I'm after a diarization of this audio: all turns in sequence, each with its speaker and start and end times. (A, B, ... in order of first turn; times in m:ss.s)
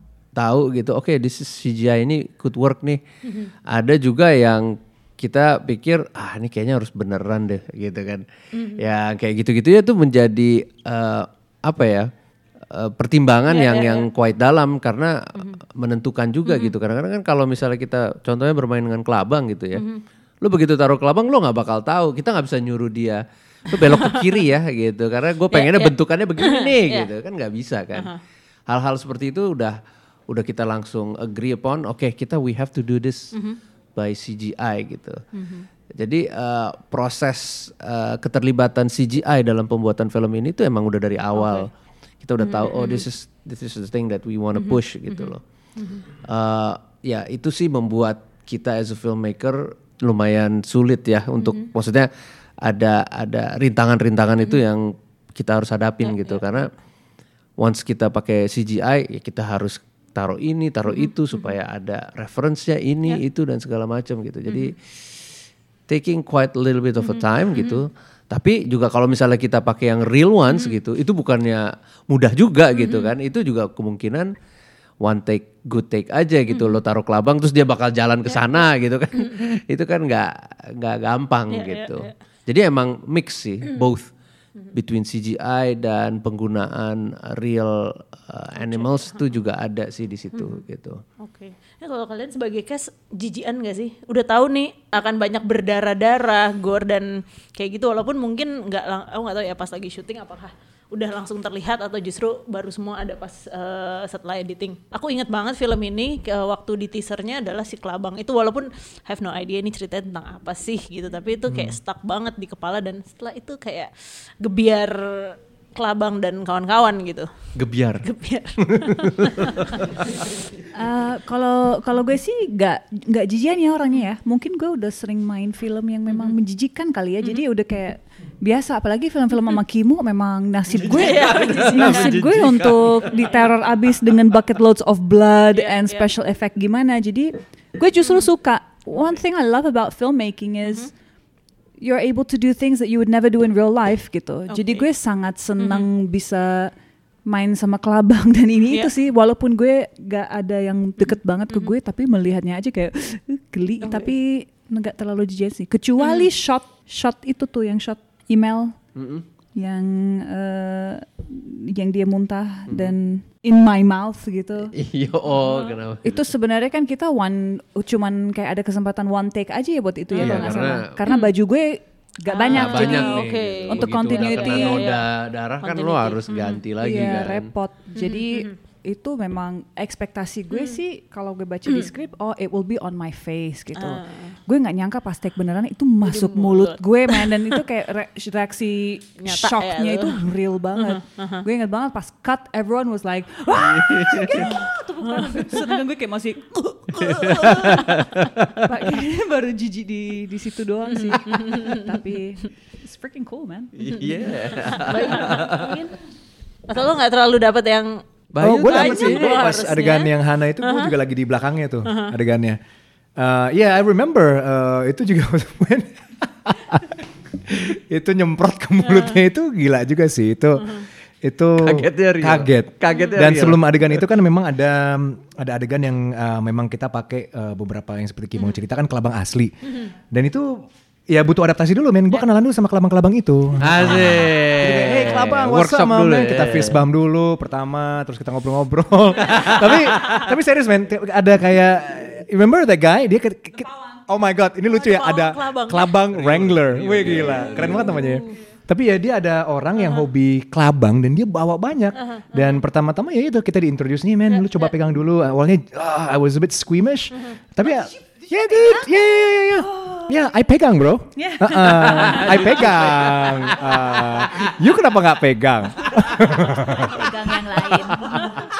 0:00.4-0:03.0 A
0:03.2-0:03.5 B
0:03.7-0:08.2 A
0:08.6-0:08.8 B
0:08.8-0:12.1 A
0:12.7-0:19.8 A
0:13.5-0:14.1 B
0:16.4-0:16.7 B
0:19.7-0:20.0 B
0:20.4-0:28.1 A
0:23.9-0:24.4 B
0:25.5-0:27.1 B
0:28.7-0:33.3 A
0:34.0-0:35.2 A
0:35.3-0:35.6 B
0:36.0-0:41.7 A
0:41.3-0:41.7 B
0:42.2-0:45.4 A
0:42.4-0:43.1 B
0:44.5-0:46.0 B
0:46.1-0:52.1 A
0:51.4-0:51.6 B
0:52.6-0:56.7 A
0:56.0-0:56.4 B
0:57.6-1:04.8 A
1:00.9-1:01.6 B
1:04.5-1:04.7 B
1:05.9-1:14.3 A
1:07.0-1:07.8 B
1:10.5-1:10.8 B
1:12.7-1:13.1 B
1:15.0-1:24.1 A
1:16.5-1:16.8 B
1:18.3-1:18.7 B
1:21.5-1:22.1 B
1:24.7-1:31.0 A
1:28.6-1:29.3 B
1:30.3-1:30.6 B
1:31.2-1:53.9 B
1:51.5-1:51.7 A
1:54.4-1:57.3 B
1:57.6-1:58.0 A
1:58.0-1:59.8 B
1:58.7-1:59.7 A
2:00.7-2:20.9 C
2:06.1-2:06.4 B
2:10.8-2:12.4 B
2:11.0-2:13.1 A
2:15.5-2:16.0 B
2:21.8-2:26.7 C
2:24.5-2:24.9 B
2:25.6-2:25.9 B
2:27.2-2:38.8 C
2:33.8-2:34.1 B
2:36.0-2:36.3 B
2:38.9-2:39.2 A
2:39.6-2:44.7 C
2:42.7-2:42.9 A
2:44.8-2:46.3 A
2:45.3-2:45.8 B
2:46.0-2:54.8 C
2:50.1-2:51.3 B
2:50.2-2:50.9 A
2:52.4-2:55.1 B
2:52.5-2:57.5 A
2:55.6-2:56.6 B
2:56.8-3:17.7 C
2:58.0-2:58.5 B
3:00.5-3:00.8 B
3:03.8-3:04.4 B
3:06.0-3:07.3 B
3:09.2-3:10.2 B
3:10.7-3:11.4 B
3:13.7-3:14.5 A
3:14.4-3:15.7 B
3:17.0-3:18.0 B
3:17.2-3:18.5 A
3:18.6-3:23.7 C
3:20.9-3:21.8 B
3:23.8-3:25.8 A
3:23.9-3:25.9 B
3:26.7-3:28.0 B
3:28.3-3:29.5 A
3:28.4-3:32.6 D
3:28.6-3:30.1 B
3:30.6-3:30.9 B
3:31.8-3:32.1 B
3:33.2-4:27.1 D
3:38.9-3:39.1 B
3:40.6-3:40.9 B
3:41.6-3:44.0 A
3:42.9-3:43.2 B
3:53.6-3:56.8 A
3:59.2-4:00.2 A
4:04.7-4:06.1 B
4:06.1-4:08.0 A
4:07.2-4:08.2 B
4:09.8-4:10.1 B
4:12.0-4:12.6 B
4:14.3-4:14.7 B
4:18.5-4:18.9 C
4:19.6-4:20.1 C
4:21.2-4:22.4 C
4:22.1-4:24.2 A
4:26.7-4:28.4 C